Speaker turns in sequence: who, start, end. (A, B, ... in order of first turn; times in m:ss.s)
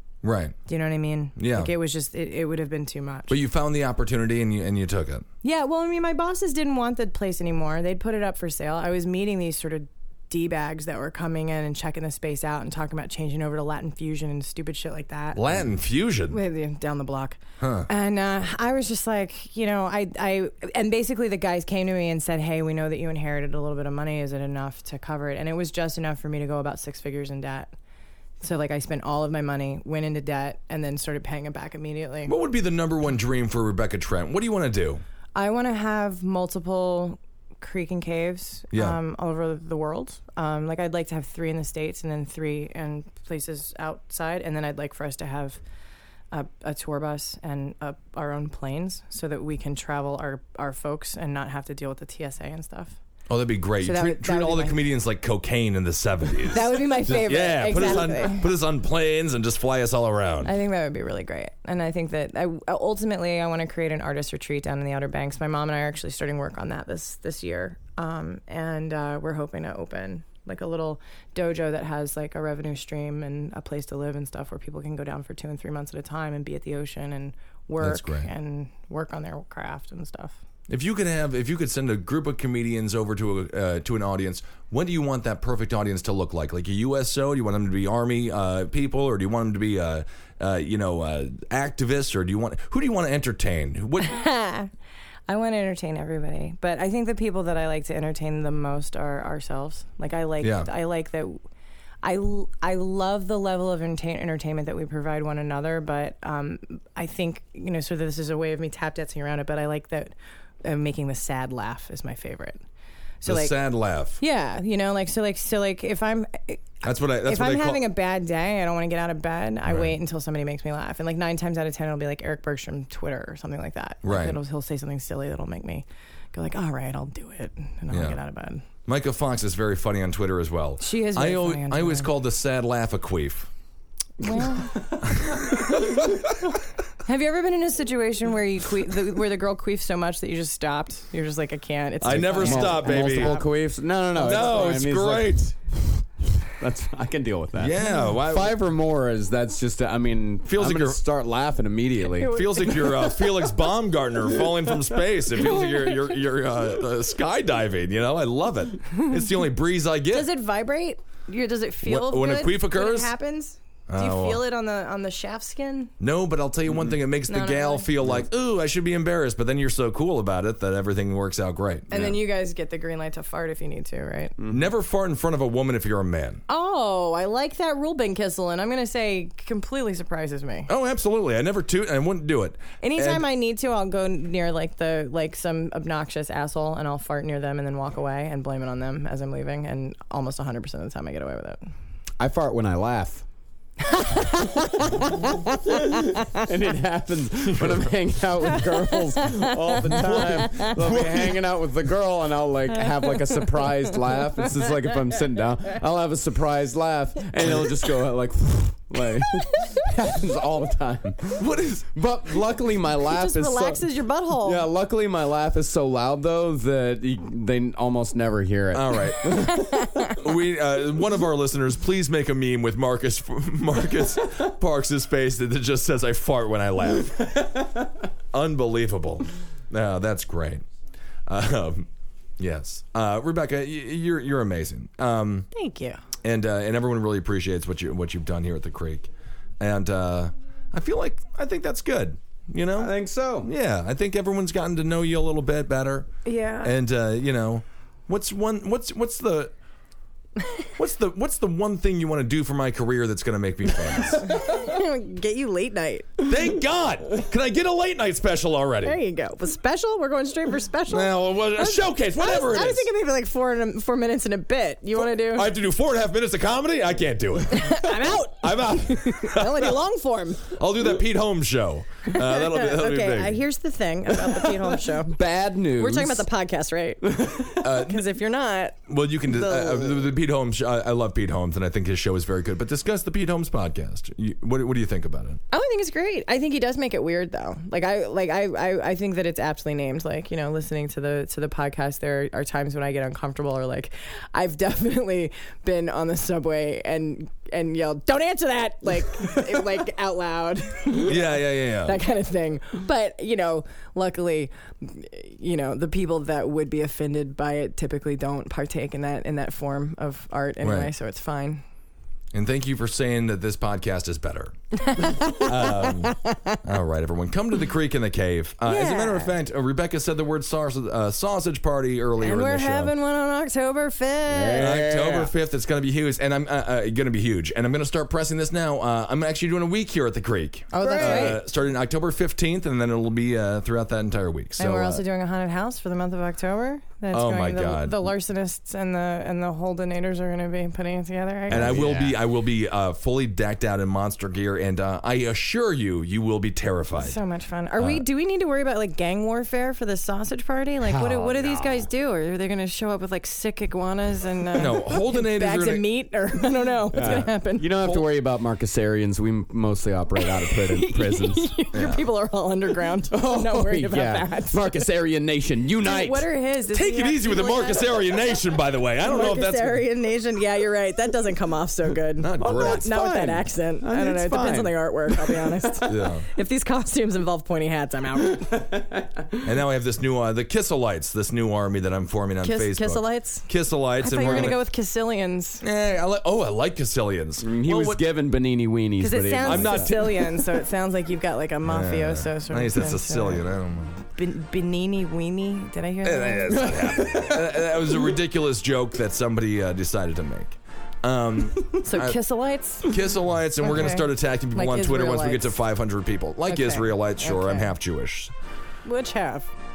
0:00.2-0:00.6 A
0:00.7-0:03.4 B
0:01.4-0:01.7 A
0:03.3-0:05.2 A
0:05.4-0:15.6 B
0:15.3-0:16.4 A
0:16.3-0:27.7 B
0:17.6-0:17.9 A
0:28.4-0:32.3 B
0:32.3-0:35.0 A
0:35.3-0:45.6 B
0:38.7-0:39.0 A
0:46.3-0:53.0 B
0:53.3-1:00.5 A
0:53.8-0:54.8 B
0:56.5-0:58.5 B
1:00.4-1:20.4 B
1:17.8-1:18.3 A
1:20.7-1:34.2 A
1:34.0-1:34.7 B
1:35.3-1:41.4 B
1:40.4-1:40.7 A
1:42.0-1:52.6 B
1:53.2-1:53.6 B
1:53.2-1:54.2 A
1:54.2-2:08.6 B
1:56.8-1:57.8 A
1:59.7-1:59.9 A
2:04.0-2:04.4 A
2:07.9-2:08.2 A
2:08.9-2:13.5 A
2:10.8-2:12.1 B
2:14.2-2:14.8 B
2:14.6-2:15.0 C
2:15.1-2:15.7 A
2:17.0-2:23.5 B
2:22.0-2:23.4 A
2:22.1-2:26.0 C
2:24.1-2:25.5 A
2:26.6-2:32.4 C
2:27.6-2:28.6 A
2:30.4-2:31.0 A
2:32.0-2:33.4 B
2:32.2-2:40.3 A
2:35.4-2:36.0 B
2:40.1-2:45.9 B
2:41.8-2:43.1 A
2:43.9-2:44.4 A
2:46.0-2:52.2 A
2:47.3-2:47.9 B
2:51.9-2:54.4 B
2:54.5-2:56.4 A
2:56.5-3:00.7 B
3:00.7-3:03.2 A
3:02.8-3:11.7 B
3:12.2-3:13.2 C
3:13.9-3:16.3 B
3:14.8-3:33.9 C
3:19.1-3:20.7 B
3:20.8-3:21.4 A
3:31.4-3:31.9 A
3:33.1-3:34.7 B
3:34.4-3:40.1 C
3:38.7-3:39.5 A
3:39.6-3:40.0 B
3:40.1-3:47.4 A
3:48.3-3:50.6 A
3:51.3-3:51.9 A
3:52.4-3:55.5 A
3:55.5-3:56.0 B
3:56.2-3:59.1 A
3:59.6-4:09.5 A
4:02.8-4:03.5 C
4:06.2-4:06.7 B
4:10.8-4:14.4 A
4:14.2-4:16.2 B
4:16.2-4:19.0 A
4:18.8-4:25.5 B
4:20.9-4:22.9 A
4:24.9-4:29.8 A
4:27.5-4:30.6 B
4:30.5-4:33.4 A
4:32.1-4:35.2 B
4:35.0-4:36.3 C
4:35.8-4:40.1 B
4:37.0-4:37.6 C
4:37.6-4:38.0 A
4:38.9-4:45.4 A
4:45.5-5:11.6 B
5:01.0-5:02.0 A
5:10.6-5:10.9 A
5:12.3-5:14.6 A
5:14.8-5:16.6 B
5:15.3-5:22.9 A
5:18.6-5:19.3 B
5:22.2-5:24.8 B
5:24.3-5:25.3 C
5:24.6-5:35.0 A
5:30.7-5:31.4 B
5:30.8-5:31.4 C
5:34.6-5:41.9 B
5:37.1-5:38.0 A
5:41.5-5:42.2 C
5:41.5-5:47.2 A
5:47.0-5:57.7 B
5:47.8-5:48.0 A
5:50.8-5:51.8 C
5:54.6-5:55.9 A
5:56.9-6:01.5 C
5:57.0-5:57.2 A
5:57.7-5:58.1 A
6:00.2-6:04.8 B
6:01.7-6:02.0 A
6:03.1-6:06.3 C
6:05.8-6:08.4 B
6:06.7-6:09.8 A
6:09.0-6:18.7 B
6:12.2-6:12.9 A
6:12.4-6:15.8 C
6:15.9-6:16.3 A
6:19.4-6:24.6 A
6:22.4-6:25.6 B
6:24.2-6:24.5 C
6:25.6-6:28.0 A
6:27.4-6:30.0 C
6:29.0-6:33.4 B
6:29.4-6:30.1 A
6:31.6-6:34.0 A
6:34.1-6:37.4 B
6:36.0-6:42.2 A
6:41.7-6:42.9 B
6:42.8-6:48.3 A
6:43.6-6:45.6 B
6:46.5-6:47.7 B
6:48.8-6:49.5 B